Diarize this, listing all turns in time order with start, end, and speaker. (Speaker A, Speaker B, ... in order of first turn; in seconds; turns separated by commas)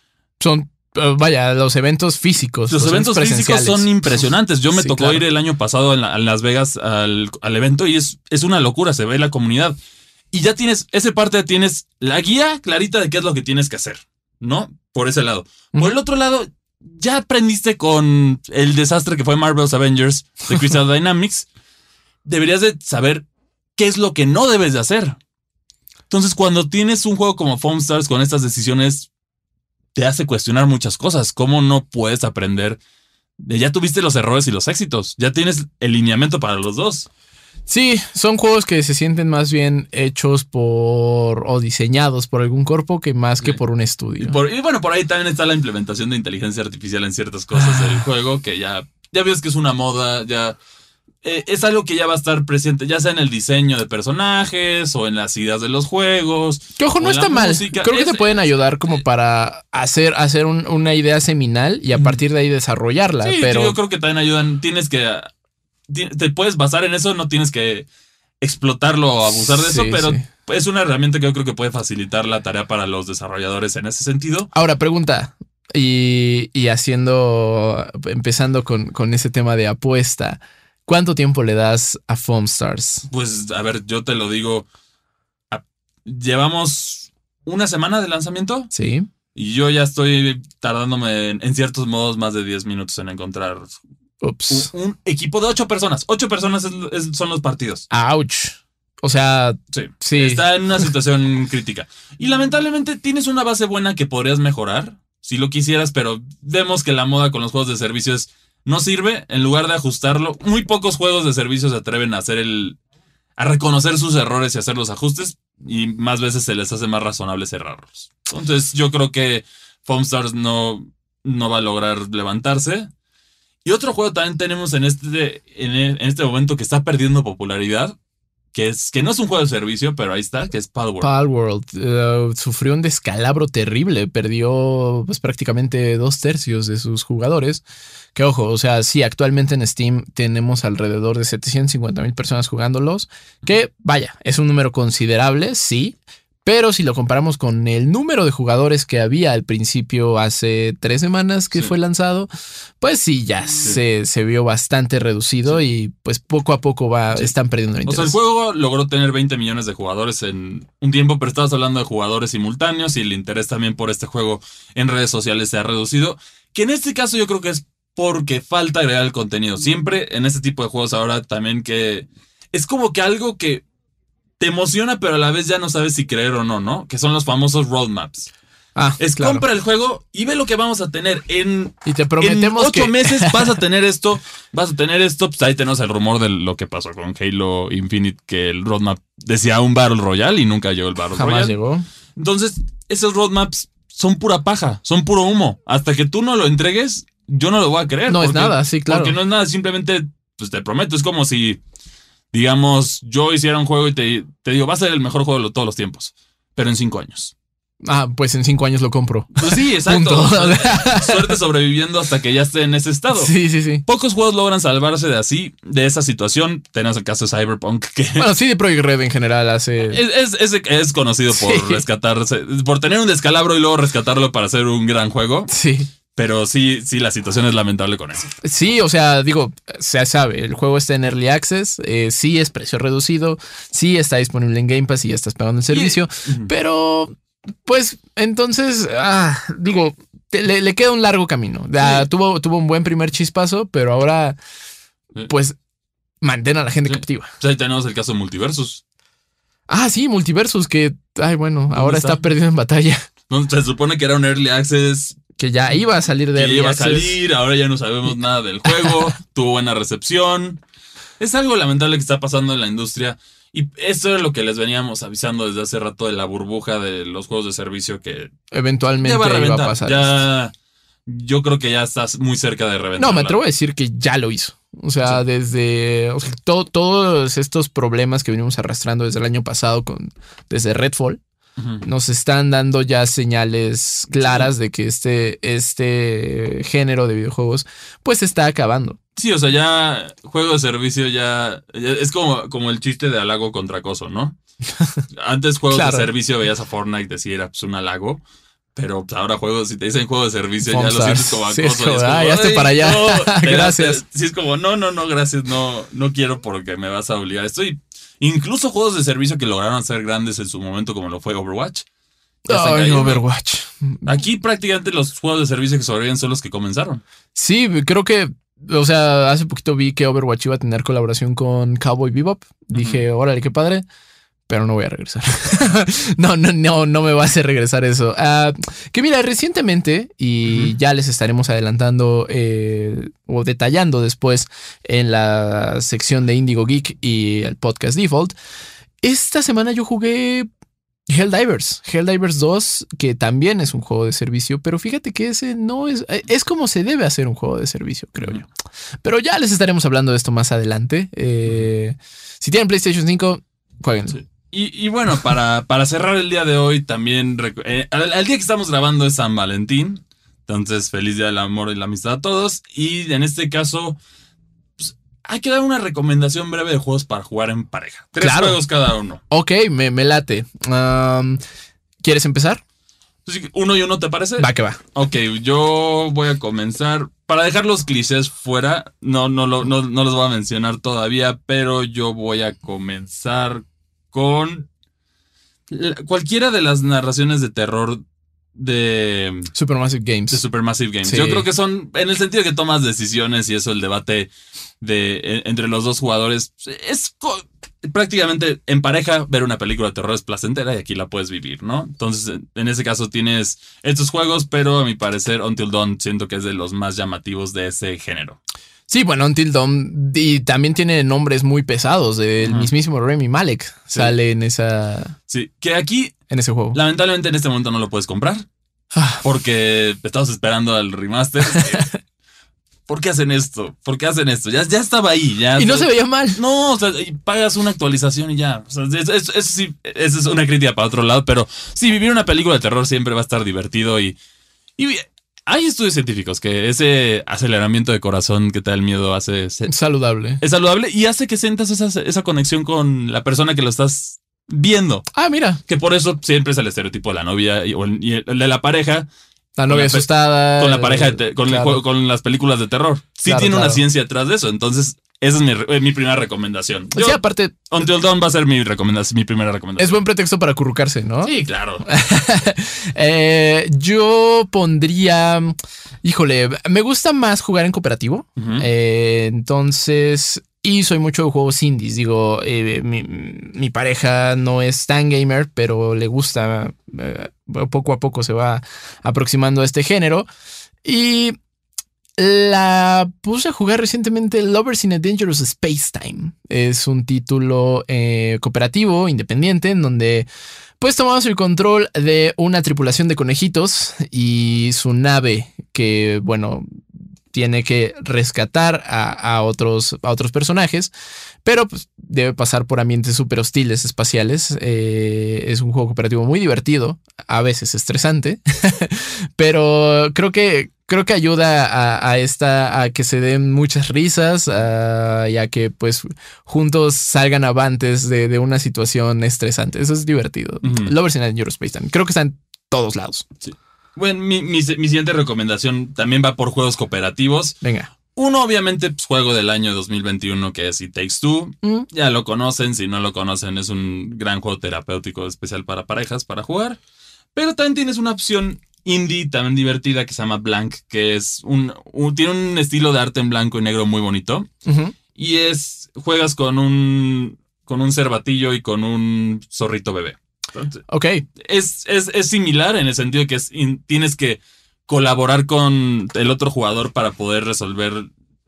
Speaker A: 0.4-3.9, Speaker B: 2.7-9.8, Speaker A: 4.7-5.2, Speaker B: 10.3-21.5, Speaker B: 22.2-25.2, Speaker B: 26.1-29.1, Speaker B: 29.9-32.8, Speaker B: 33.4-37.1, Speaker A: 37.7-44.4, Speaker B: 44.2-50.6, Speaker A: 47.5-48.0, Speaker B: 51.2-58.4, Speaker A: 56.8-63.8, Speaker B: 61.9-62.2, Speaker B: 63.2-65.3, Speaker B: 65.9-67.9, Speaker B: 68.4-74.5, Speaker A: 69.5-70.2, Speaker A: 74.5-83.1, Speaker B: 83.1-84.7, Speaker B: 85.5-88.7, Speaker A: 88.7-89.1, Speaker B: 89.3-93.8, Speaker A: 94.2-94.7, Speaker B: 94.5-97.9, Speaker A: 97.9-100.5, Speaker B: 99.7-112.8, Speaker B: 113.4-122.9, Speaker B: 123.7-128.0, Speaker B: 128.5-131.1, Speaker A: 131.0-137.6, Speaker A: 138.2-152.3, Speaker A: 152.8-158.2, Speaker B: 157.9-173.6, Speaker B: 174.4-178.3, Speaker A: 178.8-179.4, Speaker B: 179.0-191.6, Speaker A: 181.8-183.5, Speaker A: 191.2-191.9, Speaker B: 192.2-201.6, Speaker A: 198.1-199.2, Speaker B: 202.3-207.3, Speaker A: 207.8-211.3, Speaker B: 209.3-213.3, Speaker A: 213.2-213.8, Speaker B: 213.9-218.3, Speaker A: 218.2-220.0, Speaker B: 219.9-225.5, Speaker A: 221.3-221.8, Speaker A: 225.5-225.9, Speaker B: 226.1-228.3, Speaker A: 228.4-244.4, Speaker B: 235.7-236.5, Speaker B: 241.8-242.1, Speaker A: 245.3-245.6, Speaker A: 246.2-247.3, Speaker B: 246.9-248.8, Speaker A: 249.7-253.1, Speaker B: 251.8-252.3, Speaker B: 253.3-255.2, Speaker A: 255.4-257.2, Speaker B: 256.4-260.6, Speaker B: 261.2-268.3, Speaker A: 268.5-270.2, Speaker B: 269.0-270.5, Speaker B: 271.1-273.4, Speaker A: 273.0-281.2, Speaker B: 281.6-281.8, Speaker A: 281.8-289.0, Speaker B: 284.2-284.5, Speaker B: 289.2-294.4, Speaker B: 295.1-298.2, Speaker A: 295.7-296.1, Speaker B: 298.8-311.9, Speaker A: 300.7-304.0, Speaker A: 312.5-314.1, Speaker B: 312.5-313.2, Speaker B: 314.0-317.0, Speaker A: 317.4-323.9, Speaker B: 322.7-323.0, Speaker A: 324.5-338.4, Speaker B: 330.5-330.7, Speaker A: 339.0-340.5, Speaker A: 341.1-348.5, Speaker A: 349.0-354.2, Speaker B: 354.1-364.0, Speaker B: 364.8-369.2, Speaker A: 368.2-368.6, Speaker A: 369.3-371.4, Speaker A: 372.0-372.6, Speaker B: 373.2-384.7, Speaker A: 374.4-374.8, Speaker B: 385.7-388.0, Speaker B: 388.6-389.5, Speaker A: 389.6-390.4, Speaker B: 390.3-408.4, Speaker A: 391.0-391.5, Speaker A: 408.9-415.2, Speaker B: 412.4-412.7, Speaker B: 415.3-416.2, Speaker A: 416.3-416.8, Speaker B: 416.7-418.5, Speaker A: 418.9-419.2, Speaker B: 419.2-421.9, Speaker A: 421.5-421.9, Speaker B: 422.9-434.2, Speaker A: 425.6-426.4, Speaker B: 434.8-439.7, Speaker A: 439.7-440.4, Speaker B: 440.4-445.1, Speaker A: 445.1-445.6, Speaker B: 445.7-449.1, Speaker A: 449.6-451.8, Speaker B: 449.7-460.0, Speaker A: 453.2-453.8, Speaker A: 456.9-457.7, Speaker A: 459.8-480.3, Speaker B: 461.2-461.8, Speaker B: 468.4-468.7, Speaker A: 480.9-481.4, Speaker A: 482.2-490.3, Speaker A: 490.8-496.7, Speaker A: 497.3-500.9, Speaker A: 501.4-523.3, Speaker B: 520.6-520.9, Speaker B: 523.4-527.6, Speaker A: 527.6-527.9, Speaker B: 528.1-536.8, Speaker B: 537.4-544.5, Speaker A: 544.6-545.0, Speaker B: 545.1-550.8, Speaker A: 550.9-551.2, Speaker B: 551.4-558.1